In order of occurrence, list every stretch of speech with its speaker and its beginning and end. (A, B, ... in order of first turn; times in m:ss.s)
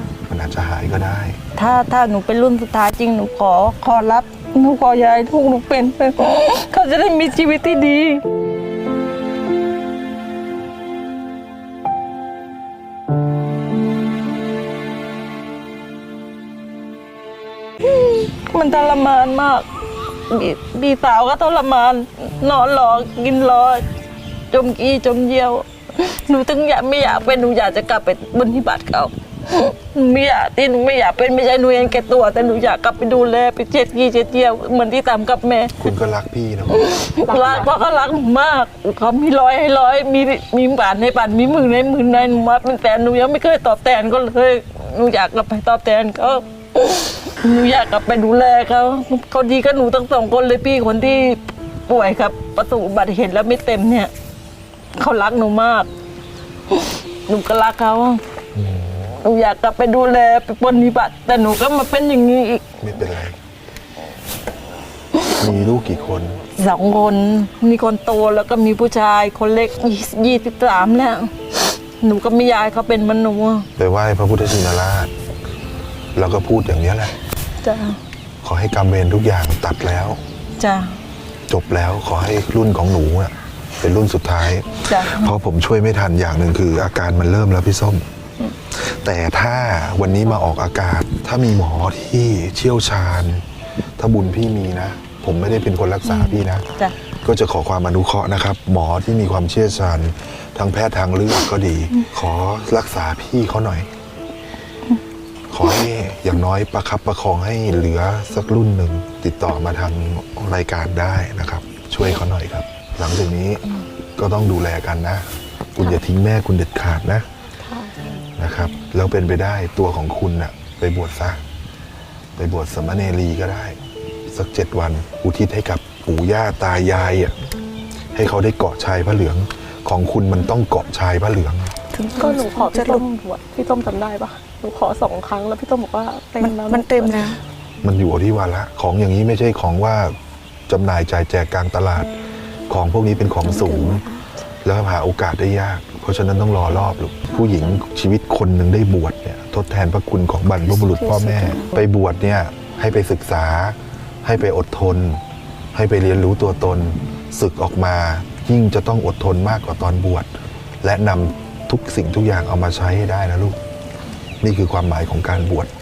0:00.3-0:01.4 A
0:01.6-0:08.2 B
0:17.8-0:19.7 B
0:20.3-0:23.9 B
0:24.5-0:35.9 B
0:35.8-0:36.9 A
0:36.7-0:54.1 B
0:37.2-0:37.7 C
0:54.9-0:55.9 B
0:56.7-0:58.2 B
0:58.6-0:59.1 A
0:59.2-1:02.6 B
1:02.8-1:03.4 A
1:05.3-1:06.4 A
1:06.6-1:13.7 B
1:13.8-1:15.1 A
1:16.2-1:17.1 A
1:17.6-1:18.0 B
1:18.4-1:20.2 A
1:20.6-1:21.0 B
1:21.5-1:28.0 A
1:24.9-1:25.3 B
1:28.8-1:33.4 A
1:34.0-1:36.7 A
1:36.1-1:36.9 B
1:37.2-1:43.9 A
1:45.5-1:53.7 A
1:54.2-1:57.3 A
1:57.6-1:58.2 C
1:58.4-2:01.4 A
2:02.4-2:07.4 A
2:08.1-2:11.7 A
2:11.9-2:13.0 D
2:12.2-2:17.2 C
2:16.4-2:17.4 D
2:17.8-2:20.2 A
2:20.7-2:22.1 A
2:22.7-2:24.0 A
2:23.4-2:24.1 D
2:24.6-2:35.2 A
2:30.7-2:31.8 D
2:35.7-2:40.3 A
2:40.8-2:43.6 A
2:44.4-2:45.7 A